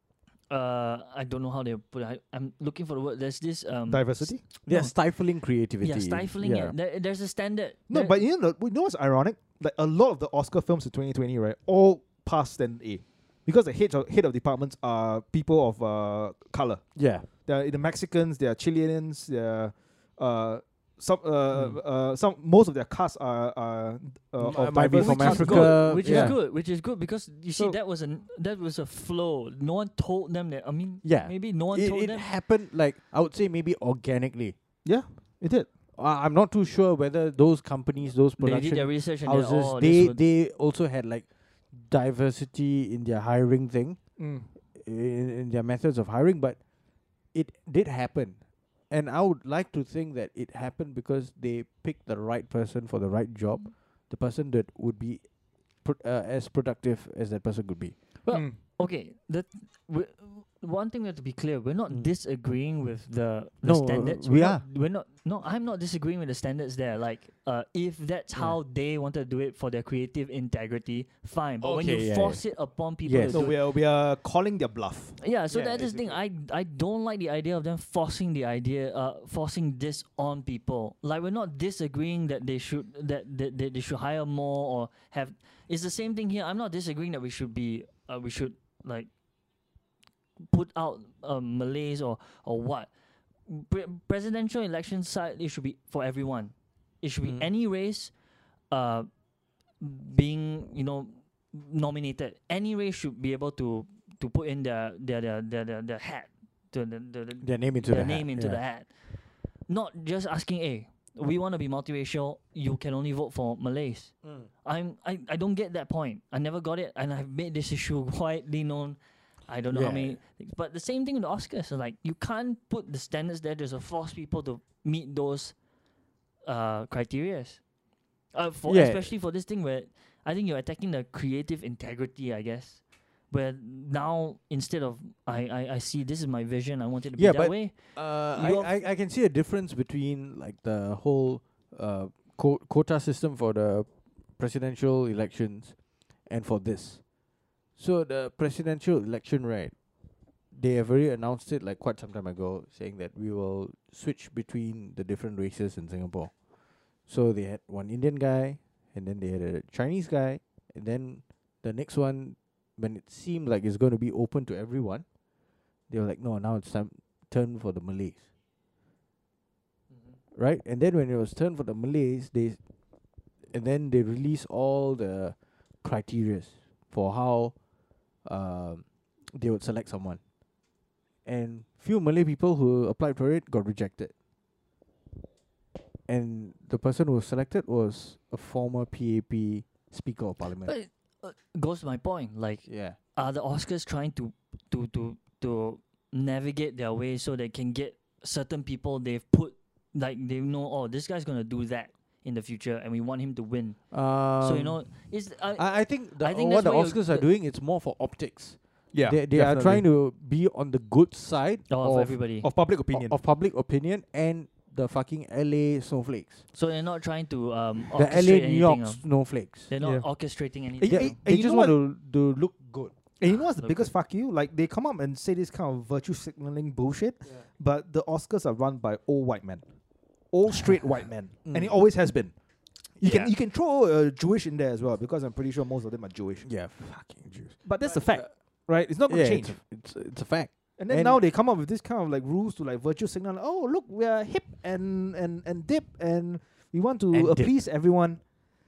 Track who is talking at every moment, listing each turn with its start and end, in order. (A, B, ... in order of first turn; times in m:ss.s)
0:00.5-0:05.1 A
0:03.9-0:04.4 B
0:04.6-0:06.7 C
0:05.8-0:08.2 A
0:07.9-0:26.6 B
0:16.9-0:17.3 C
0:21.5-0:21.8 C
0:24.4-0:26.4 C
0:24.8-0:32.3 A
0:31.0-0:34.6 C
0:34.8-0:35.7 B
0:35.9-0:44.0 C
0:38.4-0:40.2 A
0:44.2-0:44.5 B
0:44.7-0:46.6 C
0:47.3-0:58.0 C
0:58.2-1:13.6 A
0:58.3-0:58.6 B
1:03.6-1:04.6 C
1:11.6-1:13.5 C
1:13.3-1:15.2 B
1:15.2-1:29.1 A
1:15.5-1:16.2 C
1:30.4-1:32.9 A
1:33.5-1:38.1 A
1:38.7-1:39.1 A
1:39.8-2:05.5 A
1:47.4-1:48.6 C
1:54.2-1:54.5 C
1:59.7-2:00.2 C
2:06.4-2:07.6 A
2:08.3-2:18.8 A
2:08.7-2:09.1 C
2:17.2-2:27.1 C
2:27.7-2:29.8 C
2:30.5-2:36.4 C
2:37.0-2:45.0 C
2:45.9-2:48.2 C
2:50.3-2:52.6 C
2:53.5-2:57.5 C
2:58.2-3:00.2 C
3:01.2-3:04.1 C
3:06.1-3:10.7 C
3:10.6-3:27.3 A
3:12.6-3:13.0 C
3:23.9-3:25.0 C
3:25.5-3:32.4 C
3:28.9-3:29.9 B
3:31.7-3:32.5 A
3:32.4-3:33.2 B
3:32.9-3:36.4 C
3:36.5-3:41.2 A
3:37.9-3:39.7 C
3:39.8-3:40.1 B
3:40.8-3:41.8 B
3:40.8-3:42.9 C
3:43.2-3:49.6 B
3:43.2-3:43.9 A
3:50.3-3:52.3 B
3:51.4-3:51.8 C
3:53.0-3:56.5 B
3:53.0-3:53.3 C
3:56.4-3:58.3 C
3:57.6-3:59.6 B
3:59.0-4:01.2 C
4:00.8-4:08.2 B
4:07.1-4:07.6 C